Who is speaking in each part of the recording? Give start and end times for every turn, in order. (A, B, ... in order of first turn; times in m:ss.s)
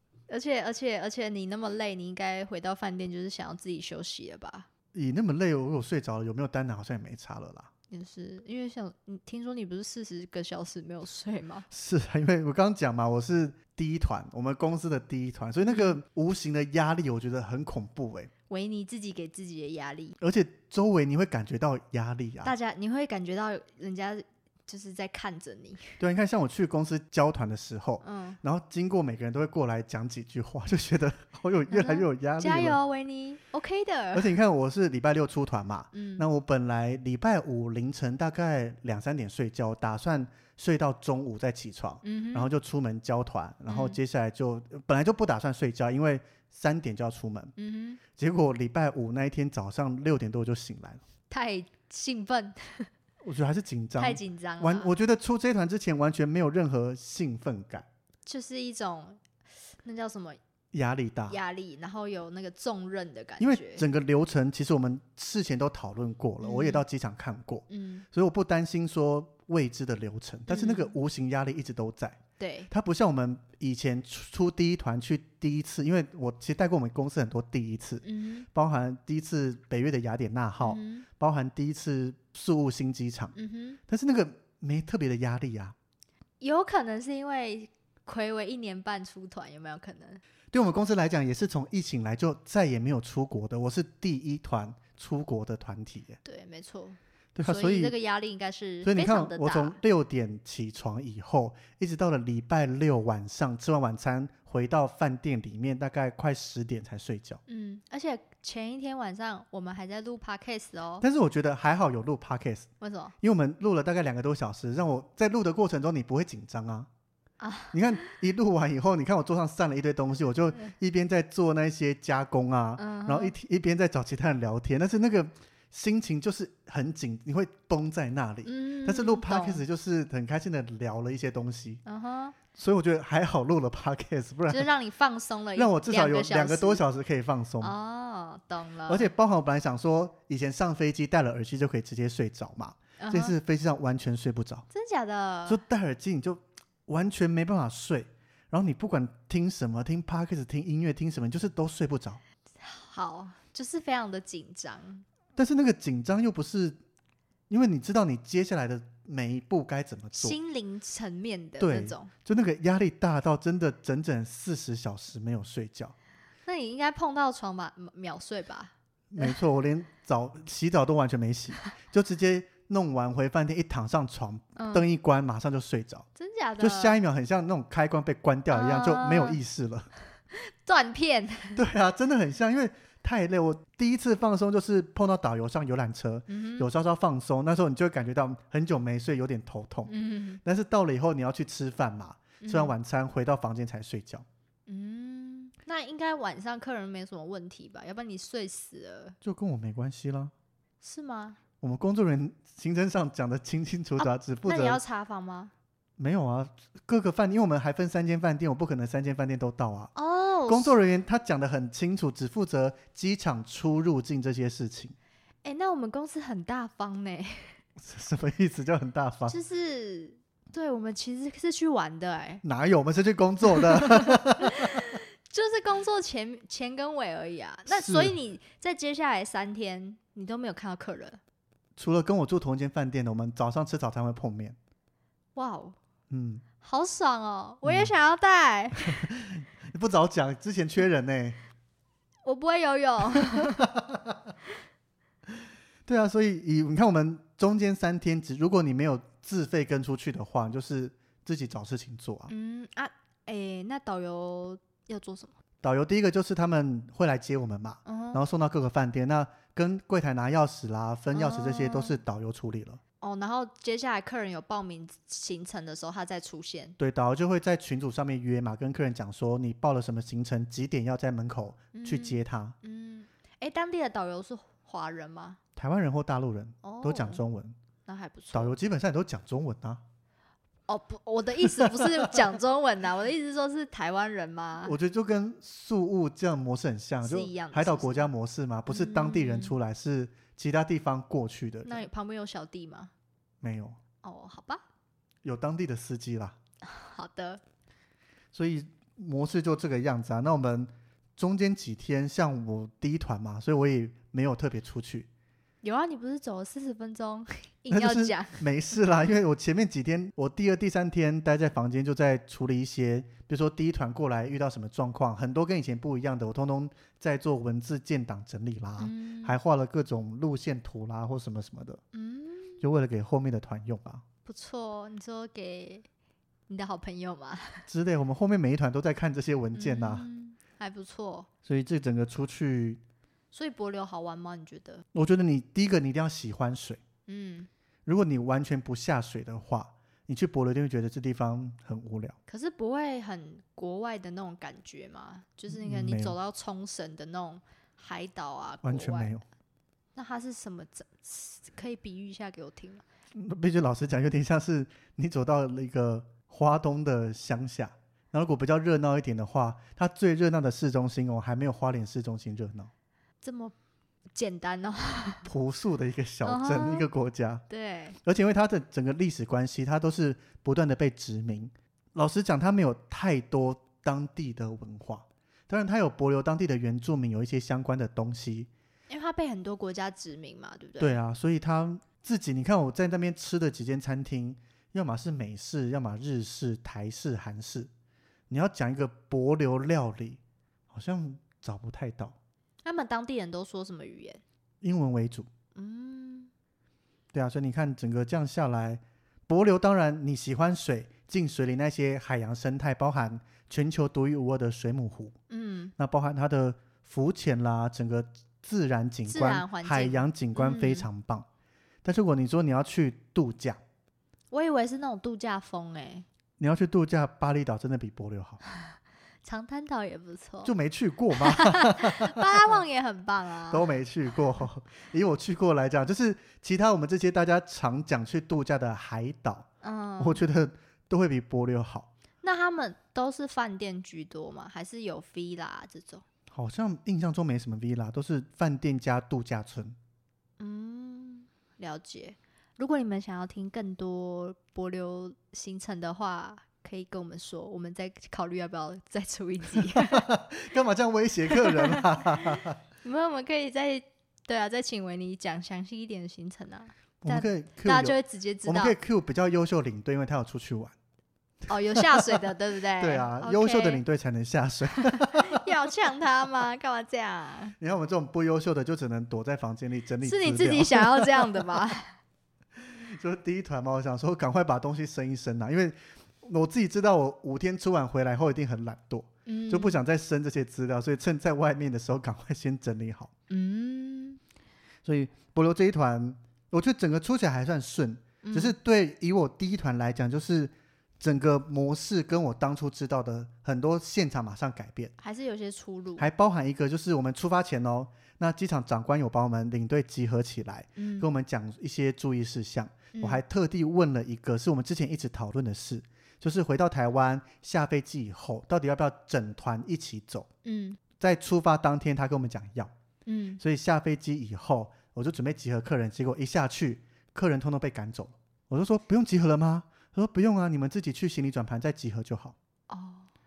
0:00.3-0:04.7 A
0:04.9-0:07.7 B
0:07.9-0:11.7 A
0:11.7-0:18.3 B
0:15.7-0:16.0 A
0:18.5-0:20.2 A
0:20.2-0:22.5 B
0:22.4-0:26.0 A
0:26.0-0:32.8 B
0:28.0-0:28.4 A
0:31.7-0:34.3 A
0:34.1-0:47.5 B
0:35.9-0:36.2 A
0:42.0-0:42.5 A
0:43.7-0:44.0 A
0:47.6-0:48.0 A
0:48.2-0:51.0 B
0:51.3-0:52.9 A
0:53.2-0:57.9 B
0:54.0-0:54.9 A
0:58.3-0:59.2 A
0:59.8-1:00.4 A
1:00.7-1:01.4 B
1:01.3-1:03.8 A
1:03.4-1:23.4 B
1:06.4-1:06.8 A
1:07.7-1:08.1 A
1:10.5-1:11.0 A
1:12.4-1:12.7 A
1:18.0-1:18.5 A
1:20.6-1:21.1 A
1:23.4-1:23.8 A
1:23.9-1:25.8 B
1:26.4-1:30.2 A
1:30.5-1:36.2 B
1:36.2-1:39.8 A
1:37.4-1:37.9 B
1:38.8-1:47.4 B
1:47.5-1:51.0 A
1:51.0-1:52.7 B
1:52.8-1:53.1 A
1:53.2-1:56.9 B
1:57.4-1:58.0 A
1:57.7-2:11.8 B
2:02.8-2:03.4 A
2:08.4-2:09.6 A
2:11.8-2:12.4 A
2:12.5-2:14.7 B
2:14.5-2:16.8 A
2:15.6-2:17.7 B
2:17.6-2:19.1 A
2:18.9-2:24.6 B
2:23.0-2:23.4 A
2:24.7-2:25.6 A
2:25.5-2:32.2 B
2:32.6-2:35.0 A
2:35.4-2:36.8 B
2:37.5-2:40.4 B
2:40.2-2:42.1 A
2:41.6-2:45.9 B
2:46.4-2:49.4 A
2:49.1-2:56.1 B
2:54.6-2:54.8 A
2:56.2-2:57.0 A
2:56.6-2:59.9 B
2:58.5-2:59.4 A
3:00.3-3:01.6 A
3:01.6-3:09.9 B
3:06.3-3:06.7 A
3:09.9-3:10.4 A
3:10.4-3:14.2 B
3:12.4-3:12.7 A
3:14.7-3:19.2 A
3:19.2-3:20.3 B
3:20.8-3:21.4 A
3:21.6-3:24.8 B
3:24.0-3:25.5 A
3:26.0-3:29.9 B
3:30.0-3:30.8 A
3:30.5-3:35.0 B
3:35.4-3:37.6 A
3:37.8-3:39.4 B
3:39.3-3:42.4 A
3:42.4-3:45.0 B
3:43.6-3:51.2 A
3:47.7-3:48.2 B
3:51.8-3:54.6 B
3:55.4-3:55.8 A
3:56.1-3:56.4 B
3:56.6-3:59.1 A
3:57.6-3:57.9 B
3:58.8-4:01.4 B
4:02.2-4:03.6 A
4:03.2-4:04.3 B
4:05.9-4:12.3 B
4:12.3-4:15.4 A
4:15.6-4:22.8 B
4:17.8-4:18.2 A
4:21.1-4:22.0 A
4:23.0-4:26.8 A
4:26.8-4:32.6 B
4:31.7-4:35.4 A
4:35.6-4:37.6 B
4:36.6-4:37.2 A
4:37.9-4:38.5 A
4:38.3-4:39.8 B
4:40.7-4:44.8 A
4:41.5-4:42.1 B
4:44.6-4:51.9 B
4:47.0-4:48.1 A
4:48.7-4:49.6 A
4:51.6-4:52.9 A
4:53.4-4:53.8 B
4:54.0-4:54.6 A
4:55.2-4:56.4 B
4:56.6-4:57.4 A
4:58.3-5:05.1 B
5:05.6-5:08.4 A
5:07.7-5:21.8 B
5:18.8-5:19.4 A
5:21.9-5:22.6 A
5:22.6-5:24.0 B
5:24.3-5:25.9 A
5:26.5-5:27.7 A
5:27.7-5:30.1 B
5:29.6-5:31.3 A
5:31.4-5:32.8 B
5:33.3-5:34.8 A
5:34.9-5:36.8 B
5:37.1-5:37.5 A
5:37.9-5:42.2 B
5:42.3-5:49.1 A
5:45.5-5:46.2 B
5:48.6-5:49.2 B
5:50.0-5:52.8 A
5:53.2-6:02.7 B
6:03.2-6:03.6 A
6:04.2-6:05.3 A
6:05.2-6:07.4 B
6:06.2-6:06.9 A
6:07.5-6:08.0 A
6:08.0-6:18.5 B
6:18.9-6:20.9 A
6:20.8-6:27.7 B
6:28.3-6:30.2 B
6:30.7-6:32.2 B
6:32.6-6:34.2 A
6:34.6-6:35.3 B
6:35.6-6:36.3 A
6:37.1-6:45.2 B
6:45.3-6:45.7 A
6:45.8-6:51.3 B
6:49.1-6:50.9 A
6:51.8-6:53.6 B
6:54.3-6:56.1 A
6:56.4-6:58.4 B
6:58.5-7:00.5 A
7:00.4-7:02.5 B
7:01.1-7:03.7 A
7:03.5-7:09.5 B
7:09.6-7:10.2 A
7:10.0-7:11.9 B
7:12.2-7:16.0 A
7:16.3-7:19.8 B
7:20.4-7:30.1 A
7:29.6-7:32.6 B
7:31.3-7:38.8 A
7:37.0-7:40.8 B
7:41.5-7:43.8 A
7:41.7-7:42.2 B
7:42.8-7:45.4 B
7:44.8-7:47.6 A
7:47.6-7:51.5 B
7:50.0-7:52.0 A
7:52.6-8:03.1 B
7:59.3-7:59.8 A
8:03.3-8:04.2 A
8:04.8-8:14.9 B
8:08.2-8:08.6 A
8:15.0-8:16.1 A
8:16.0-8:30.3 B
8:20.8-8:21.1 A
8:22.9-8:23.2 A
8:30.4-8:30.8 A
8:31.0-8:32.7 B
8:33.1-8:33.4 A
8:33.4-8:42.4 B
8:42.7-8:43.1 A